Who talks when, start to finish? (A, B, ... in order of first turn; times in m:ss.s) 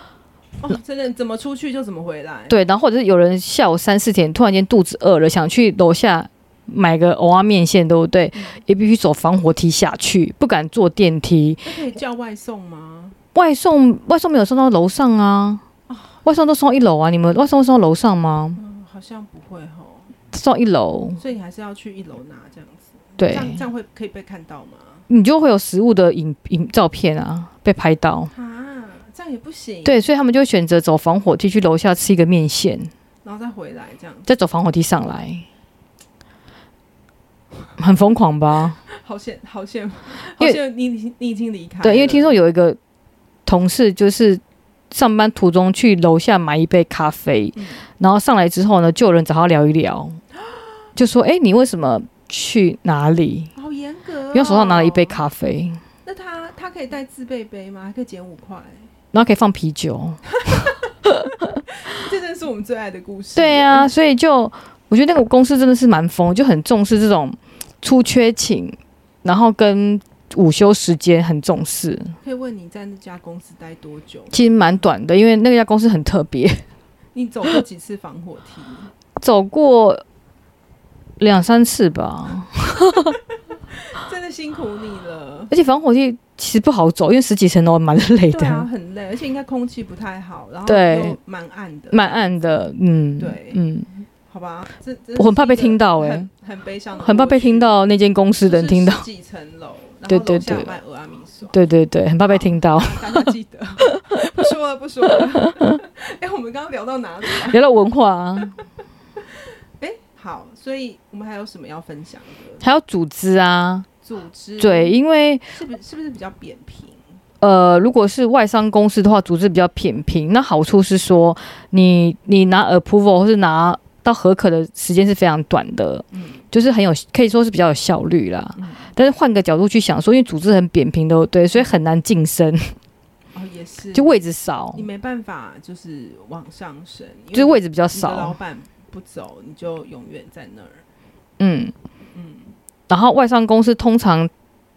0:00.6-0:02.6 A
0:02.5-0:11.7 B
0:08.4-0:08.6 A
0:11.6-0:13.2 A
0:13.4-0:15.6 B
0:15.9-0:16.2 A
0:16.2-0:18.6 B
0:18.5-0:20.1 A
0:20.3-0:21.2 B
0:21.2-0:25.0 A
0:23.2-0:23.6 B
0:25.1-0:28.3 B
0:28.3-0:30.0 A
0:29.8-0:32.9 B
0:33.2-0:34.3 A
0:34.2-0:35.4 B
0:37.8-0:38.8 B
0:38.8-0:42.4 A
0:41.8-0:42.8 B
0:43.5-0:50.2 B
0:47.6-0:47.9 A
0:50.4-0:50.9 A
0:51.0-0:53.5 B
0:53.6-0:55.2 A
0:54.3-0:55.8 B
0:56.0-0:58.9 A
0:59.1-1:00.2 B
1:00.4-1:03.9 A
1:01.0-1:01.6 B
1:03.4-1:12.1 B
1:12.2-1:14.8 A
1:14.3-1:16.6 B
1:17.1-1:18.9 A
1:19.2-1:20.0 B
1:21.2-1:23.1 B
1:23.8-1:25.5 A
1:25.5-1:28.7 B
1:28.3-1:32.6 A
1:30.6-1:31.2 B
1:31.9-1:33.9 B
1:33.2-1:33.6 A
1:34.3-1:37.8 A
1:35.2-1:36.3 B
1:37.0-1:39.0 B
1:38.4-1:41.6 A
1:40.1-1:40.7 B
1:41.5-1:43.3 B
1:42.3-1:47.6 A
1:47.4-1:48.6 B
1:49.8-1:52.6 A
1:52.6-1:53.9 B
1:54.0-1:55.0 A
1:54.6-1:55.4 B
1:55.5-1:57.2 A
1:57.4-2:12.7 B
2:06.1-2:06.4 A
2:08.6-2:08.9 A
2:13.3-2:20.8 A
2:13.9-2:14.8 B
2:17.3-2:18.4 B
2:21.4-2:21.7 B
2:22.1-2:22.5 A
2:22.9-2:24.3 B